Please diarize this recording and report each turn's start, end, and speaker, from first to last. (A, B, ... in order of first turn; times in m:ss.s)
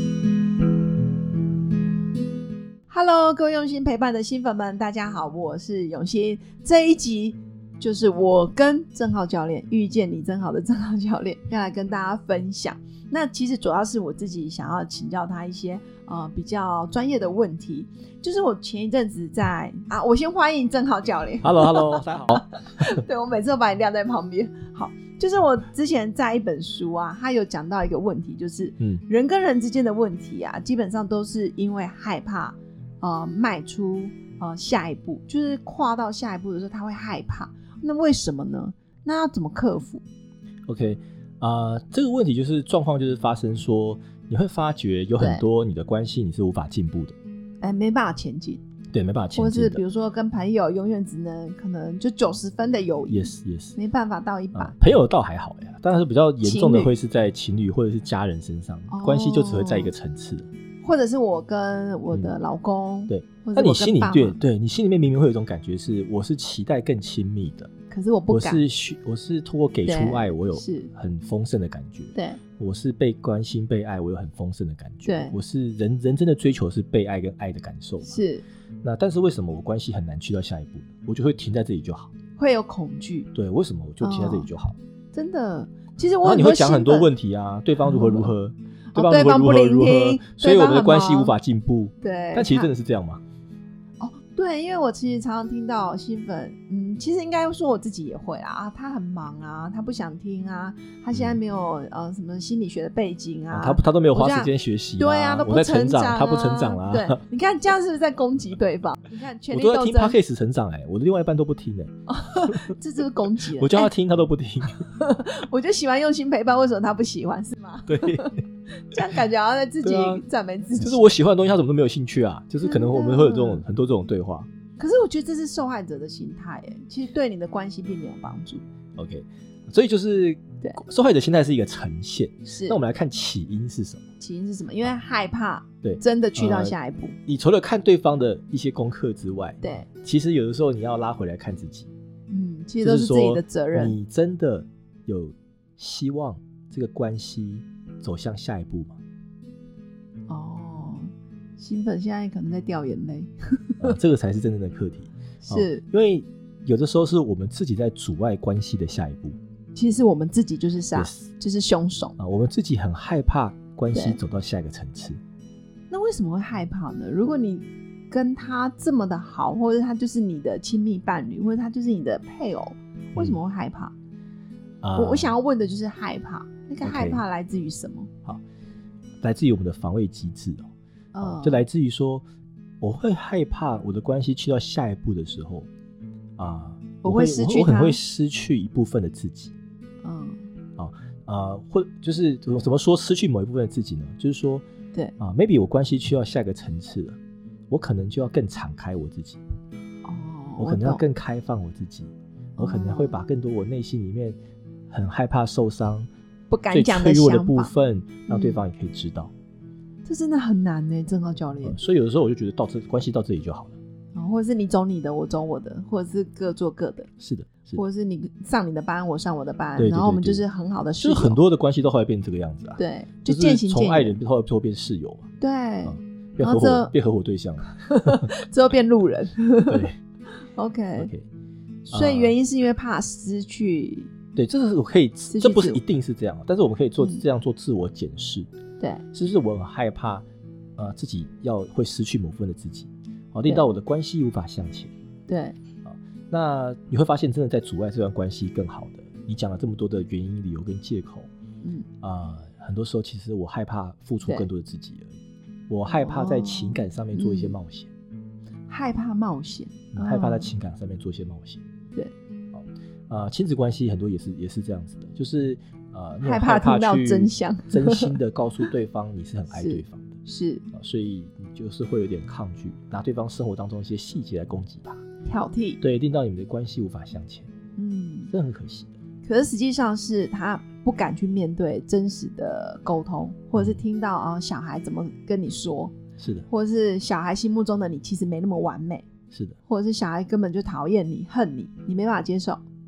0:02.9-0:40.0 A
0:21.4-0:22.5 B
0:40.7-0:47.2 B
0:45.2-0:45.4 A
0:47.6-0:48.6 A
0:48.9-0:49.8 B
0:49.4-0:54.8 A
0:53.1-0:53.8 B
0:54.5-1:00.5 B
0:56.4-0:56.9 A
0:58.9-0:59.9 A
1:00.8-1:04.4 A
1:03.1-1:07.7 B
1:07.9-1:08.6 A
1:08.3-1:18.2 B
1:09.8-1:10.9 A
1:12.1-1:12.4 A
1:15.0-1:15.4 A
1:18.0-1:18.4 A
1:18.8-1:22.1 B
1:22.4-1:23.3 A
1:23.3-1:24.8 B
1:24.0-1:24.5 A
1:25.1-1:27.1 A
1:26.2-1:33.2 B
1:27.8-1:28.3 A
1:28.9-1:31.3 A
1:32.0-1:32.7 A
1:34.0-1:50.2 A
1:41.1-1:41.4 B
1:43.5-1:47.2 B
1:49.5-1:52.7 B
1:52.1-1:53.9 A
1:53.4-1:54.8 B
1:54.8-2:01.0 A
1:57.9-1:58.4 B
1:59.8-2:00.2 B
2:00.8-2:04.5 B
2:02.6-2:03.6 A
2:04.8-2:08.6 A
2:09.0-2:14.0 B
2:12.5-2:12.8 A
2:14.2-2:17.2 A
2:15.8-2:16.7 B
2:17.3-2:21.9 B
2:19.6-2:19.9 A
2:22.3-2:24.0 A
2:22.8-2:29.0 B
2:30.3-2:34.0 A
2:33.8-2:39.4 B
2:35.4-2:35.8 A
2:39.7-2:42.2 A
2:40.9-2:41.2 B
2:42.2-2:45.2 B
2:43.9-2:44.2 A
2:45.9-2:53.9 A
2:54.8-2:55.3 B
2:55.0-2:58.1 A
2:56.8-2:57.2 B
2:59.2-3:02.2 B
3:01.1-3:01.6 A
3:02.8-3:05.7 B
3:06.4-3:09.5 B
3:07.0-3:08.0 A
3:10.0-3:10.4 A
3:10.8-3:14.6 B
3:15.2-3:17.2 B
3:17.7-3:19.4 B
3:20.0-3:21.0 A
3:20.6-3:24.4 B
3:22.6-3:23.2 A
3:24.9-3:26.1 B
3:26.5-3:27.7 A
3:26.7-3:29.3 B
3:28.3-3:28.6 A
3:30.0-3:31.8 A
3:31.6-3:33.8 B
3:34.1-3:37.1 A
3:37.2-3:37.8 B
3:37.7-3:41.4 A
3:39.8-3:40.4 B
3:41.0-3:45.2 B
3:42.8-3:44.2 A
3:45.4-3:46.9 A
3:45.8-3:48.3 B
3:47.7-3:49.8 A
3:49.7-3:50.0 B
3:50.5-3:51.1 A
3:51.0-3:51.2 B
3:51.9-3:54.1 A
3:51.9-3:52.3 B
3:54.3-3:58.5 B
3:55.3-3:55.8 A
3:59.1-4:00.2 B
4:00.8-4:04.9 B
4:05.3-4:05.6 A
4:05.8-4:11.3 B
4:11.6-4:11.9 A
4:12.0-4:15.2 B
4:15.7-4:17.9 B
4:15.8-4:17.6 A
4:18.7-4:20.5 A
4:19.9-4:21.6 B
4:22.5-4:30.2 B
4:26.2-4:28.2 A
4:29.5-4:30.6 A
4:30.7-4:35.0 B
4:35.2-4:35.8 A
4:35.8-4:37.5 B
4:37.8-4:38.3 A
4:38.3-4:38.9 B
4:39.2-4:45.9 A
4:46.2-4:46.5 B
4:46.5-4:49.0 A
4:49.7-4:52.6 A